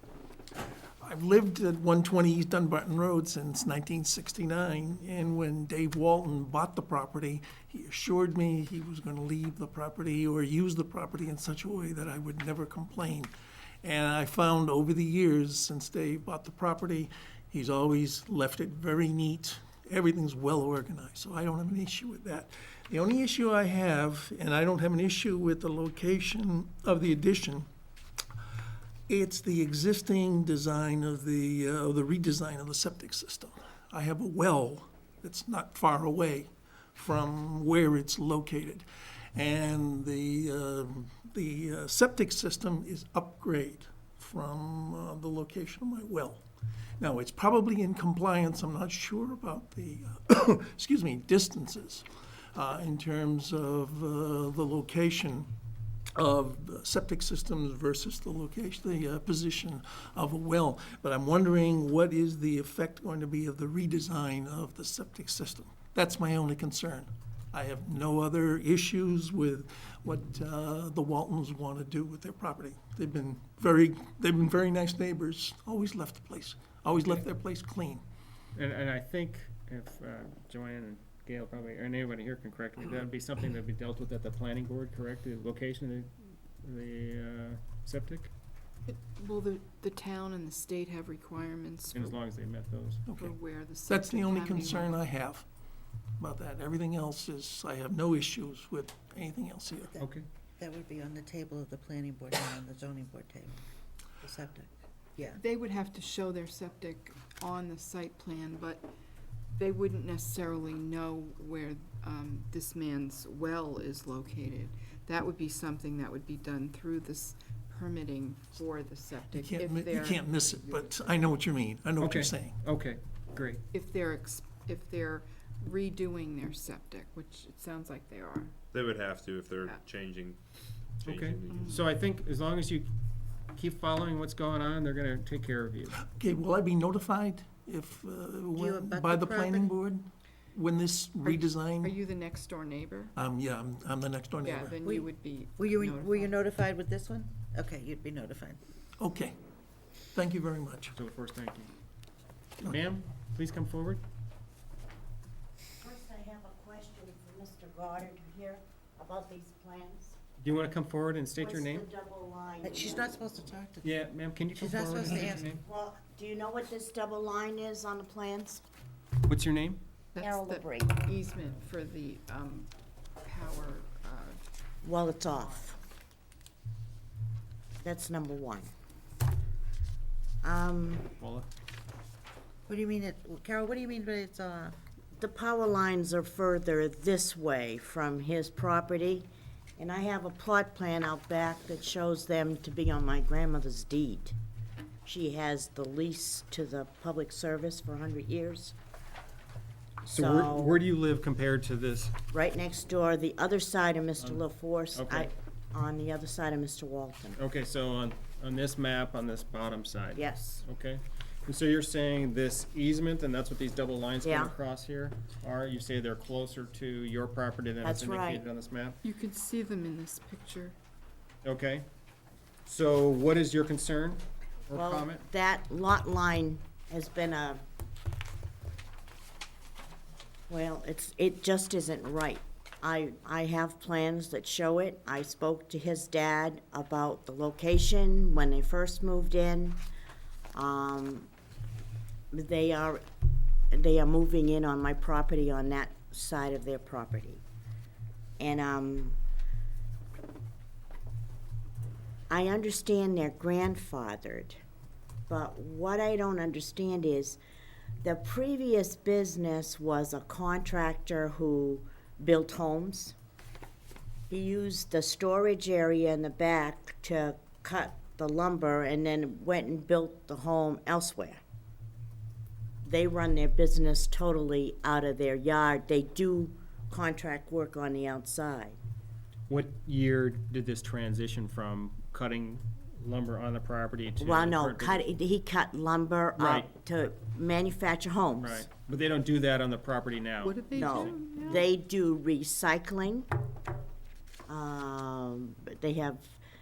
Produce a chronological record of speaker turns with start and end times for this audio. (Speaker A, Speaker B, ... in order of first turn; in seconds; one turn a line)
Speaker A: 1.0-13.3
Speaker A: 13.8-27.7
Speaker A: 29.1-46.5
Speaker A: 47.0-55.5
Speaker A: 56.1-78.0
Speaker B: 78.5-88.3
Speaker C: 88.9-92.2
Speaker B: 91.9-93.0
Speaker A: 93.0-93.3
Speaker C: 93.2-95.0
Speaker A: 93.9-95.5
Speaker A: 96.2-99.9
Speaker D: 99.9-103.5
Speaker B: 100.0-100.3
Speaker D: 104.2-104.7
Speaker C: 105.3-108.9
Speaker C: 109.5-121.0
Speaker A: 119.3-122.6
Speaker B: 122.0-123.6
Speaker C: 123.7-128.6
Speaker E: 128.7-130.4
Speaker E: 131.0-131.8
Speaker B: 131.0-132.9
Speaker C: 131.5-131.8
Speaker B: 133.5-136.0
Speaker A: 136.0-141.9
Speaker D: 138.6-139.7
Speaker C: 141.2-143.1
Speaker A: 143.2-144.8
Speaker C: 144.4-146.4
Speaker D: 145.6-148.6
Speaker A: 149.0-149.3
Speaker A: 150.1-150.9
Speaker B: 150.9-151.7
Speaker B: 152.6-154.0
Speaker F: 155.8-160.2
Speaker B: 160.4-161.8
Speaker F: 161.4-163.1
Speaker D: 162.6-163.8
Speaker B: 163.8-165.6
Speaker D: 164.5-165.5
Speaker F: 165.6-168.6
Speaker B: 169.2-169.8
Speaker C: 170.1-172.7
Speaker F: 170.2-171.0
Speaker C: 173.2-174.4
Speaker F: 174.8-175.8
Speaker F: 177.8-178.7
Speaker F: 180.4-181.1
Speaker B: 181.2-181.5
Speaker D: 182.7-184.7
Speaker F: 185.2-194.3
Speaker F: 195.0-198.7
Speaker B: 200.0-202.2
Speaker F: 200.1-200.8
Speaker F: 202.3-207.4
Speaker B: 204.9-205.3
Speaker B: 207.4-219.0
Speaker F: 210.2-210.6
Speaker F: 214.2-214.5
Speaker F: 217.8-218.4
Speaker C: 219.0-220.8
Speaker B: 221.4-221.8
Speaker B: 222.6-225.2
Speaker F: 224.7-227.6
Speaker F: 230.5-239.8
Speaker F: 240.5-241.3
Speaker F: 242.3-243.0
Speaker F: 243.7-247.4
Speaker F: 248.4-249.2
Speaker F: 252.3-254.6
Speaker F: 255.3-257.4
Speaker F: 258.0-263.1
Speaker F: 264.3-271.4
Speaker F: 272.8-278.8
Speaker B: 279.5-285.0
Speaker F: 284.2-288.6
Speaker B: 286.4-286.7
Speaker B: 288.4-290.7
Speaker C: 290.4-291.7
Speaker F: 290.7-293.3
Speaker F: 294.5-296.4